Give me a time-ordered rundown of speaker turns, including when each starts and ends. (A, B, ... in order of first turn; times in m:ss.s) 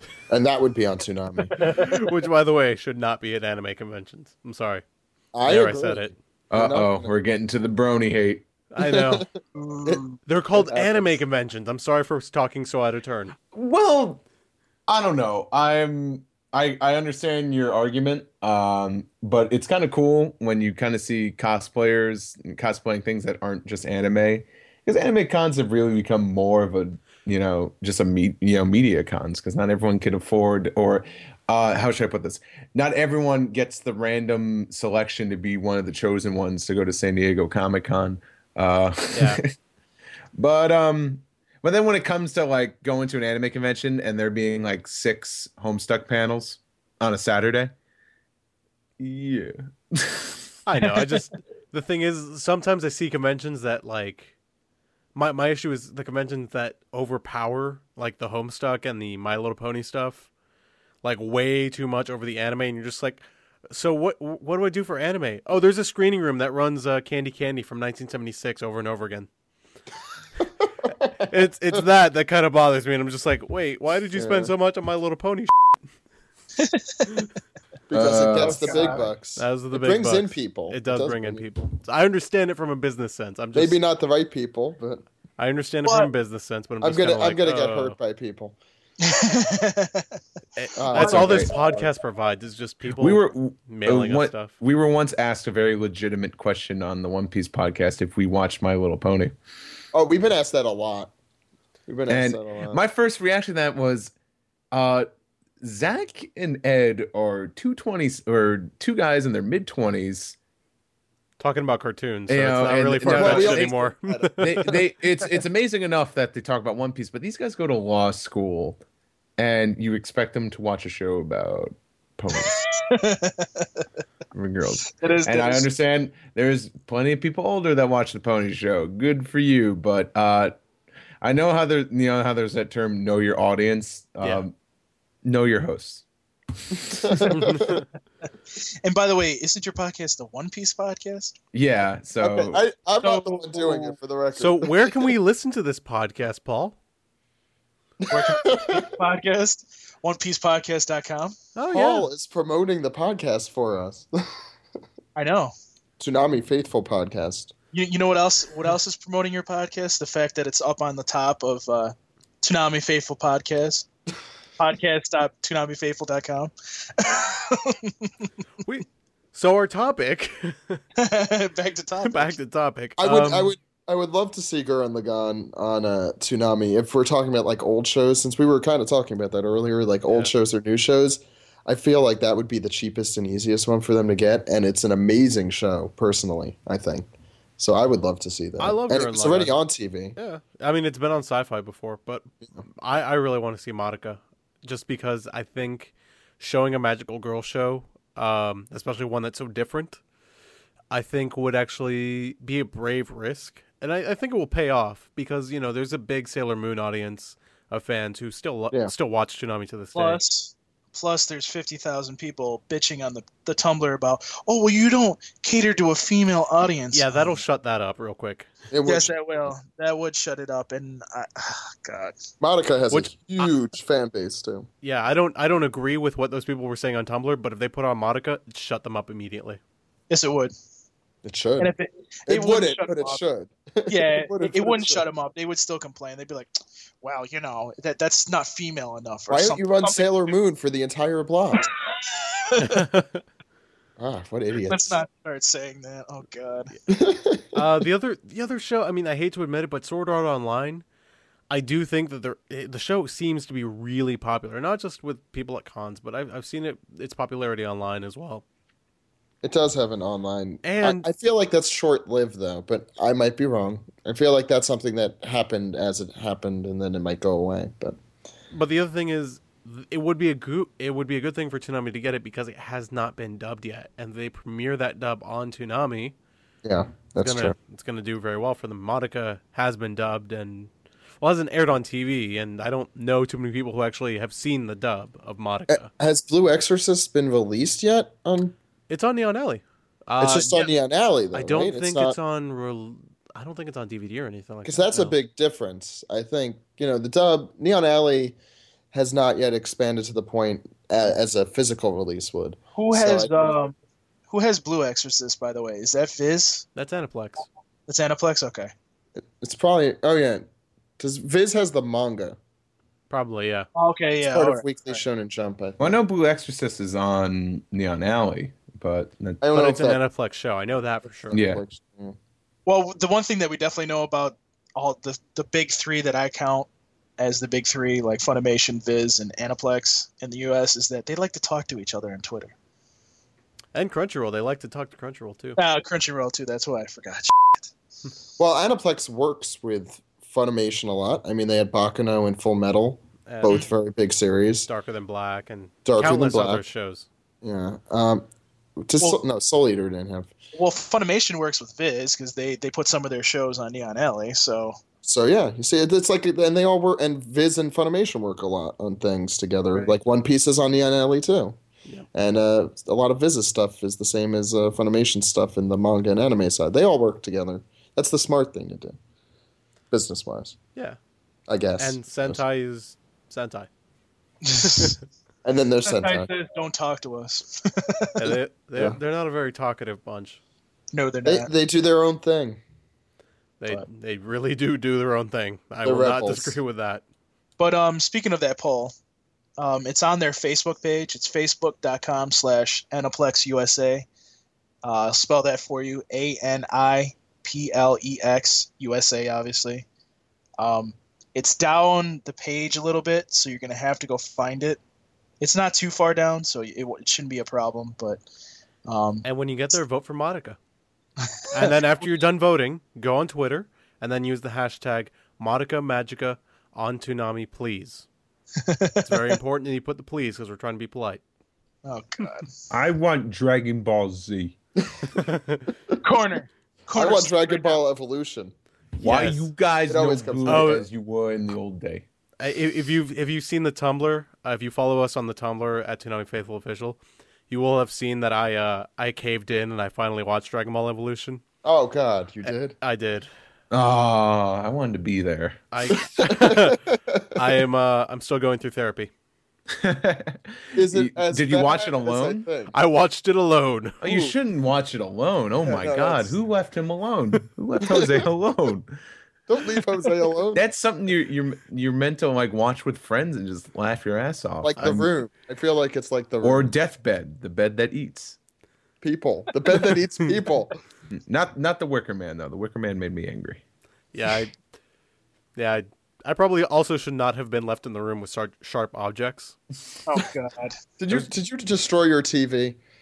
0:00.3-0:01.6 A
0:01.6-0:02.0 B
0:01.6-0:04.8 C
0:05.3-0:07.1 A
0:05.4-0:06.2 C
0:06.5-0:08.5 D
0:08.7-0:09.3 C
0:08.8-0:09.3 A
0:09.6-0:10.2 B
0:10.3-0:13.4 C
0:10.5-0:11.2 A
0:13.5-0:14.2 D
0:14.9-0:39.5 D
0:39.1-0:39.4 C
0:40.4-0:47.7 D
0:49.0-0:50.4 D
0:50.7-0:54.3 C
0:55.2-1:00.3 C
1:01.0-1:09.3 C
1:10.4-1:11.8 A
1:11.3-1:15.5 C
1:14.1-1:14.5 A
1:16.6-1:17.2 B
1:17.9-1:21.4 A
1:17.9-1:18.9 D
1:18.4-1:19.0 B
1:19.4-1:23.8 C
1:23.5-1:25.0 A
1:25.4-1:28.0 C
1:25.8-1:26.1 B
1:26.8-1:28.6 A
1:29.0-1:30.1 B
1:30.6-1:34.5 C
1:30.8-1:31.8 A
1:31.0-1:31.6 B
1:31.0-1:31.5 D
1:32.8-1:39.4 D
1:39.9-1:41.1 A
1:41.9-1:42.8 A
1:42.1-1:44.1 D
1:44.7-1:45.1 D
1:45.6-1:50.4 D
1:51.4-1:54.6 C
1:52.3-1:53.8 D
1:53.1-1:54.8 A
1:54.4-1:58.8 D
1:59.4-2:02.6 D
2:02.3-2:03.8 B
2:04.3-2:10.6 D
2:05.0-2:05.7 B
2:11.2-2:14.5 D
2:15.2-2:16.0 D
2:17.0-2:17.8 A
2:17.2-2:17.8 C
2:18.6-2:21.4 B
2:21.5-2:22.6 D
2:22.2-2:25.1 A
2:23.0-2:24.0 B
2:24.4-2:26.8 C
2:28.0-2:28.9 A
2:28.1-2:31.4 B
2:31.6-2:32.1 C
2:31.7-2:34.4 A
2:35.2-2:35.5 B
2:36.0-2:37.5 A
2:37.7-2:43.9 B
2:44.6-2:48.1 B
2:48.6-2:50.8 C
2:51.0-2:52.4 B
2:52.0-2:53.6 C
2:53.0-3:10.2 A
3:08.6-3:09.6 C
3:10.2-3:20.0 C
3:20.9-3:30.2 C
3:30.0-3:37.4 B
3:36.9-3:38.5 C
3:38.7-3:39.1 A
3:38.9-3:42.2 B
3:42.4-3:44.7 A
3:42.9-3:43.5 C
3:44.8-3:49.6 C
3:50.1-3:50.5 B
3:51.2-3:51.7 A
3:51.6-3:53.2 B
3:52.3-3:55.0 A
3:53.9-4:00.3 B
3:59.3-4:01.7 A
4:01.9-4:02.8 B
4:02.6-4:03.2 C
4:04.0-4:05.0 A
4:04.7-4:06.7 B
4:06.9-4:07.6 A
4:07.5-4:10.8 C
4:11.5-4:18.4 C
4:19.4-4:28.0 A
4:20.6-4:21.1 C
4:28.5-4:36.2 C
4:36.6-4:37.6 A
4:37.2-4:45.9 C
4:45.7-4:48.6 A
4:48.9-4:50.6 C
4:50.2-4:52.2 A
4:51.3-4:55.2 C
4:54.6-4:58.4 A
4:58.9-5:03.5 A
5:02.8-5:03.8 B
5:04.3-5:06.7 B
5:06.8-5:07.5 C
5:07.9-5:08.7 B
5:09.2-5:10.5 A
5:11.0-5:12.4 A
5:13.1-5:13.7 C
5:13.8-5:15.0 B
5:14.3-5:16.0 A
5:15.8-5:19.4 D
5:19.4-5:20.0 A
5:19.5-5:21.4 C
5:21.1-5:22.2 A
5:21.3-5:21.6 D
5:22.7-5:26.7 B
5:27.2-5:32.5 B
5:33.7-5:35.6 C
5:35.6-5:37.7 B
5:38.4-5:44.7 A
5:43.3-5:43.6 C
5:44.7-5:47.1 C
5:45.8-5:46.7 A
5:47.4-5:48.3 A
5:48.8-5:50.3 A
5:50.6-5:54.8 B
5:55.0-6:01.6 A
6:02.1-6:09.0 A
6:09.9-6:10.6 A
6:11.5-6:12.4 A
6:11.8-6:13.7 C
6:14.4-6:15.0 B
6:15.4-6:16.3 A
6:15.9-6:18.1 B
6:18.2-6:20.4 C
6:20.9-6:21.5 B
6:21.2-6:22.6 A
6:23.6-6:27.0 C
6:25.8-6:26.6 A
6:27.6-6:28.9 B
6:29.6-6:34.1 B
6:34.8-6:39.8 B
6:40.6-6:44.8 B
6:45.4-6:48.2 B
6:48.9-6:49.2 B
6:49.2-6:50.6 C
6:51.4-6:51.7 B
6:51.5-6:58.1 C
6:58.6-6:59.2 B
6:59.0-7:01.2 C
7:01.8-7:02.5 B
7:02.7-7:04.6 D
7:04.8-7:05.1 A
7:05.2-7:05.7 C
7:06.0-7:07.8 B
7:06.9-7:08.5 A
7:09.0-7:09.5 C
7:09.0-7:12.0 D
7:09.9-7:10.9 A
7:10.5-7:10.8 C
7:12.4-7:17.0 C
7:17.5-7:21.4 C
7:21.6-7:22.8 A
7:22.4-7:23.3 C
7:23.7-7:25.6 D
7:25.7-7:26.8 C
7:25.9-7:27.5 A
7:27.4-7:29.1 C
7:29.7-7:32.5 D
7:30.7-7:32.7 A
7:32.7-7:34.0 C
7:34.0-7:38.9 D
7:34.1-7:34.3 A
7:35.6-7:36.3 A
7:37.8-7:38.3 A
7:39.5-7:40.6 A
7:40.5-7:45.1 D
7:44.6-7:46.7 A
7:44.8-7:45.0 C
7:46.4-7:48.4 D
7:49.0-7:50.8 A
7:51.1-7:53.6 D
7:54.1-7:54.5 C
7:55.6-7:59.6 C
8:00.1-8:00.8 B
8:01.0-8:02.8 A